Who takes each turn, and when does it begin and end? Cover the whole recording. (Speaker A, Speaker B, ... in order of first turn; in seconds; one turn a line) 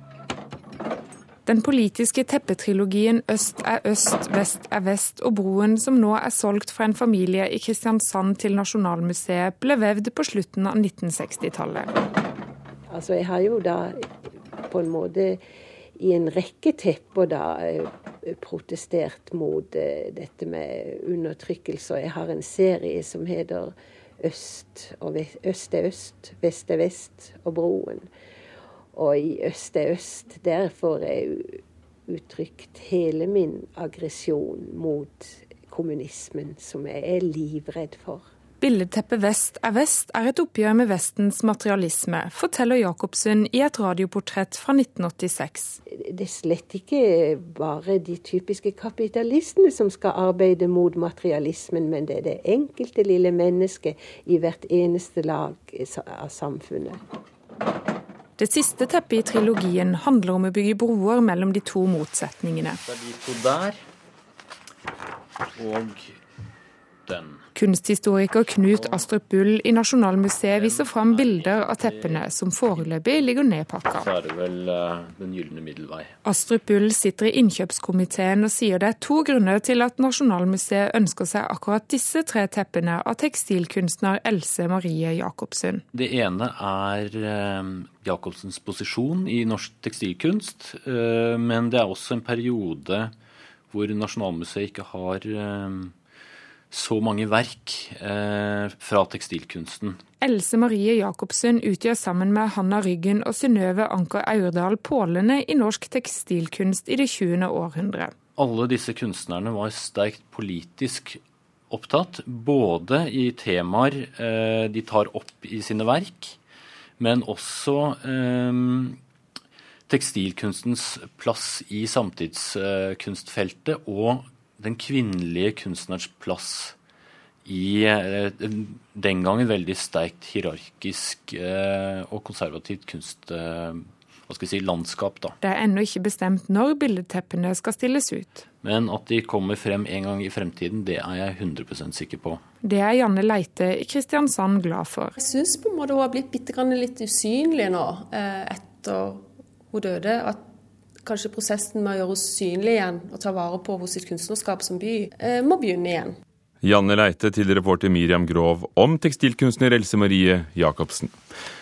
Speaker A: 1.4-11.9
Speaker B: 12.9-14.0
Speaker B: 14.7-15.4
Speaker B: 16.0-28.1
Speaker B: 28.9-38.2
Speaker A: 38.6-45.8
Speaker B: 45.9-57.0
Speaker A: 58.4-62.8
Speaker C: 62.8-63.8
Speaker C: 65.5-66.2
Speaker C: 67.0-67.4
Speaker A: 67.5-74.1
Speaker C: 68.7-69.0
Speaker C: 70.5-72.9
Speaker C: 73.9-76.1
Speaker A: 76.2-85.8
Speaker C: 85.9-93.1
Speaker C: 93.7-95.9
Speaker C: 96.7-100.0
Speaker A: 100.2-108.1
Speaker C: 108.3-116.4
Speaker C: 117.0-119.0
Speaker C: 119.9-126.7
Speaker C: 127.4-135.3
Speaker A: 135.4-138.4
Speaker C: 138.6-142.4
Speaker A: 142.6-145.2
Speaker D: 145.2-150.4
Speaker D: 151.0-156.2
Speaker E: 156.6-161.2